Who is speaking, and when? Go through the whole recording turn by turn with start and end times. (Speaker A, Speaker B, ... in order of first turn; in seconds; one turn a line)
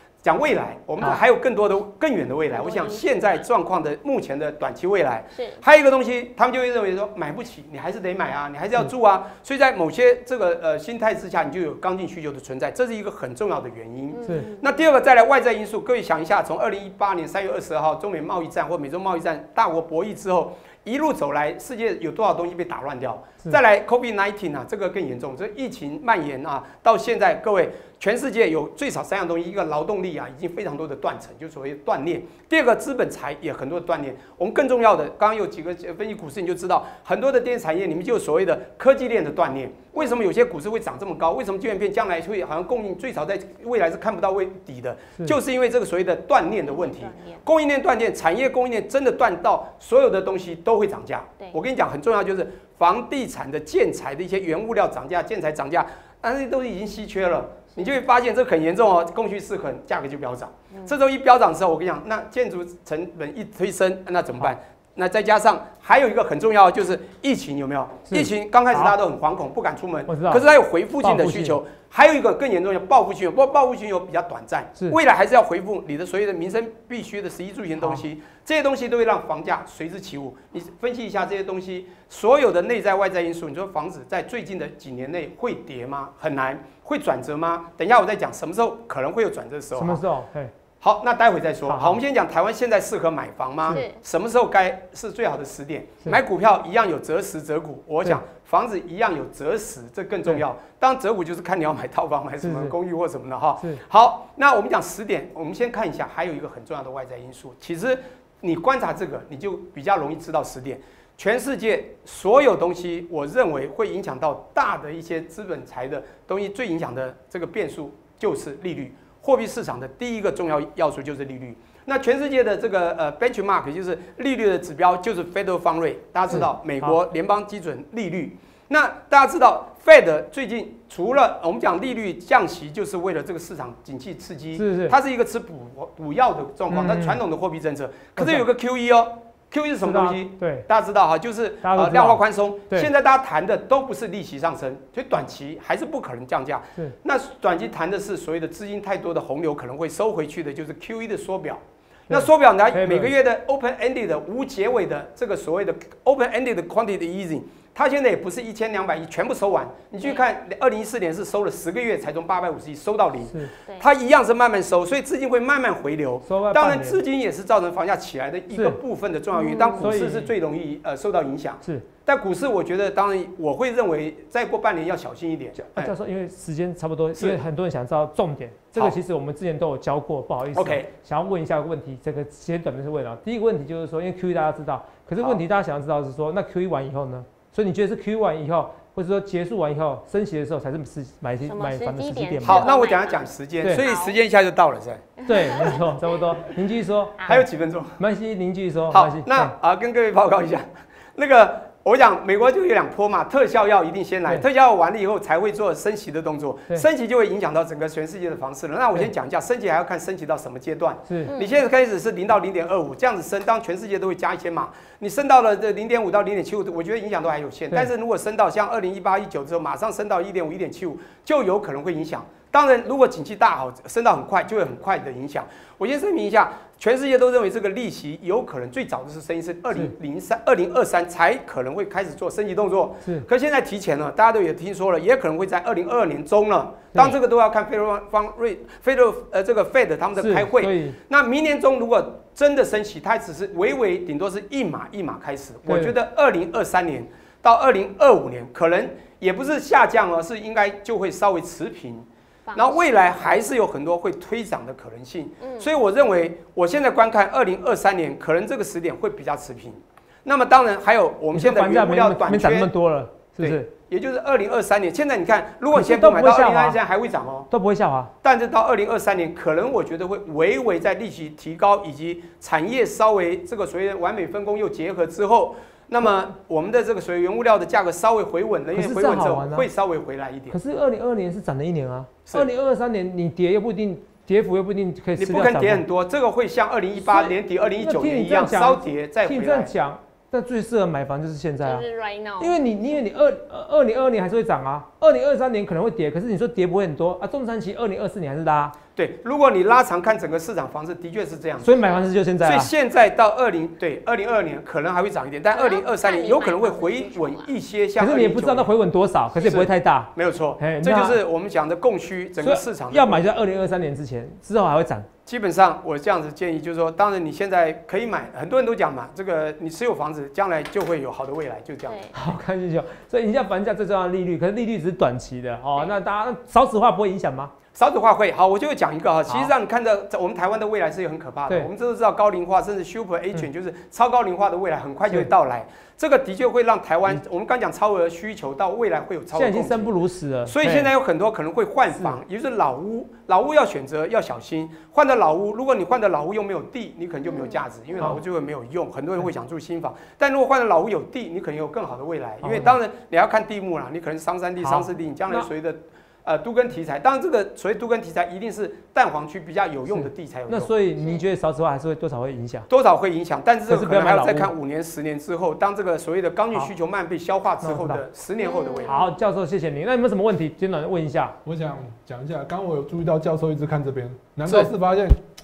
Speaker A: 0.2-90.0
Speaker B: 2.6-3.2
Speaker B: 14.1-14.6
Speaker B: 46.7-47.4
Speaker C: 68.1-68.9
Speaker C: 70.1-70.5
Speaker C: 71.0-71.6
Speaker C: 89.8-90.5
Speaker A: 90.8-175.9
Speaker C: 91.7-92.0
Speaker B: 93.7-94.0
Speaker C: 102.4-102.7
Speaker C: 126.3-127.0
Speaker C: 134.6-134.9
Speaker C: 136.7-137.2
Speaker C: 138.2-138.4
Speaker C: 139.8-140.7
Speaker C: 141.6-142.9
Speaker C: 152.1-153.1
Speaker C: 166.2-167.0
Speaker C: 168.5-168.8
Speaker B: 169.4-169.8
Speaker C: 169.7-170.3
Speaker C: 175.6-192.7
Speaker A: 180.5-180.9
Speaker B: 191.4-194.2
Speaker A: 192.4-195.7
Speaker C: 195.2-197.4
Speaker A: 197.3-198.0
Speaker C: 198.0-199.5
Speaker A: 198.9-262.7
Speaker C: 211.1-211.3
Speaker B: 211.3-211.6
Speaker C: 240.2-241.0
Speaker C: 245.7-245.9
Speaker B: 252.4-253.2
Speaker B: 255.4-255.7
Speaker C: 261.3-263.7
Speaker A: 263.4-267.5
Speaker C: 265.7-266.8
Speaker C: 267.5-268.1
Speaker A: 268.2-280.6
Speaker C: 278.7-279.6
Speaker C: 280.5-285.8
Speaker A: 285.2-289.7
Speaker C: 287.0-291.8
Speaker B: 291.6-292.6
Speaker C: 292.4-298.7
Speaker A: 298.9-301.7
Speaker C: 301.6-302.7
Speaker A: 302.4-308.7
Speaker B: 305.5-307.5
Speaker C: 308.0-311.2
Speaker A: 309.4-313.2
Speaker C: 312.4-315.1
Speaker A: 315.2-322.0
Speaker B: 321.9-322.1
Speaker C: 322.1-327.5
Speaker A: 327.7-339.9
Speaker C: 339.3-340.9
Speaker A: 340.4-360.7
Speaker C: 352.4-352.8
Speaker C: 354.6-355.5
Speaker C: 359.9-362.7
Speaker A: 362.7-369.1
Speaker C: 363.7-364.5
Speaker C: 367.6-368.0
Speaker B: 368.4-368.9
Speaker C: 368.9-371.4
Speaker D: 371.4-375.2